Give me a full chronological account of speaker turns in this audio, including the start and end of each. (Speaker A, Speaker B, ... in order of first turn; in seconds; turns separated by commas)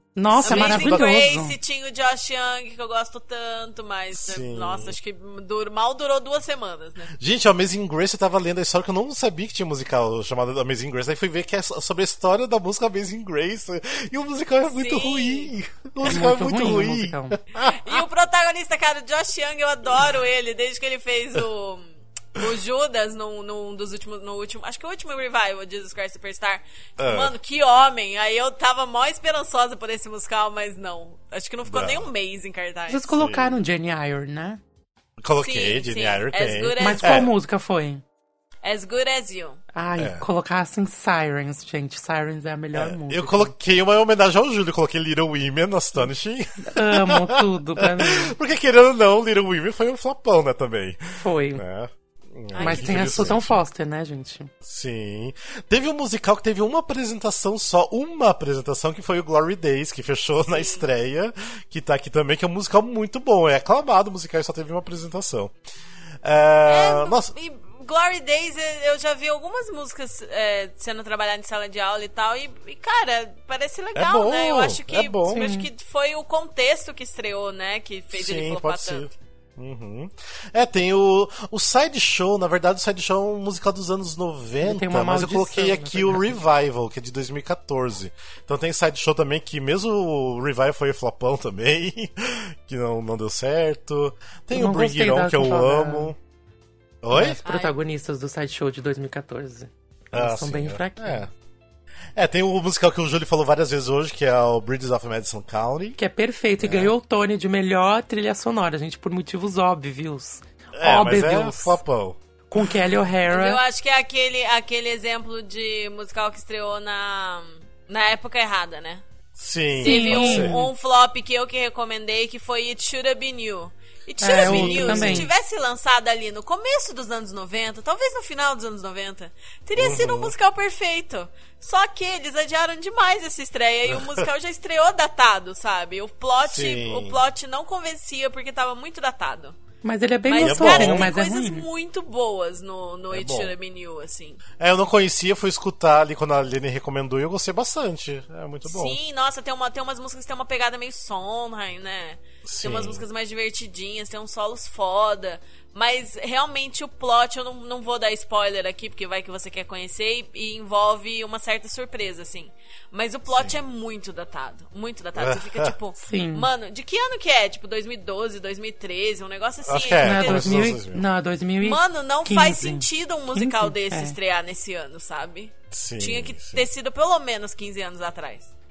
Speaker A: 0.1-1.6, Speaker B: 0.3-7.1, Speaker C: 0.4-1.1, Speaker C: 4.1-5.0, Speaker C: 7.2-18.0, Speaker B: 14.6-15.5, Speaker A: 16.0-17.4, Speaker B: 17.6-33.1, Speaker C: 27.0-27.4, Speaker C: 31.7-32.1, Speaker A: 32.9-34.6, Speaker C: 33.1-33.6, Speaker C: 35.2-37.3, Speaker B: 35.4-37.3, Speaker A: 36.8-38.0, Speaker B: 38.6-39.6, Speaker A: 39.7-43.5, Speaker C: 40.0-40.2, Speaker C: 42.7-53.6, Speaker A: 46.7-48.3, Speaker A: 51.2-51.6, Speaker B: 52.5-53.4, Speaker A: 52.6-54.5, Speaker C: 54.6-65.5, Speaker B: 60.4-60.9, Speaker C: 66.2-67.3, Speaker B: 66.7-79.1, Speaker C: 73.9-75.4, Speaker A: 75.3-75.7, Speaker C: 78.1-96.2, Speaker A: 84.6-86.4, Speaker A: 94.5-96.1, Speaker C: 97.0-97.4, Speaker A: 97.1-101.2, Speaker B: 97.4-97.8, Speaker C: 100.1-101.3, Speaker C: 102.2-106.0, Speaker A: 106.0-111.8, Speaker C: 106.6-106.9, Speaker C: 110.7-112.7, Speaker A: 112.5-113.6, Speaker B: 113.3-119.0, Speaker C: 119.4-120.5, Speaker B: 119.8-139.6, Speaker A: 119.8-120.7, Speaker A: 124.2-125.3, Speaker C: 124.3-125.3, Speaker C: 129.8-130.3, Speaker C: 133.9-134.2, Speaker C: 136.5-137.2, Speaker A: 139.8-141.7, Speaker B: 140.3-144.4, Speaker C: 140.4-141.1, Speaker C: 143.1-143.5, Speaker C: 144.6-149.0, Speaker B: 148.6-170.8, Speaker C: 152.4-153.0, Speaker C: 163.2-163.6, Speaker C: 165.2-165.7, Speaker A: 166.0-166.5, Speaker C: 169.7-171.1, Speaker A: 170.0-174.2, Speaker B: 171.6-178.5, Speaker C: 175.7-176.7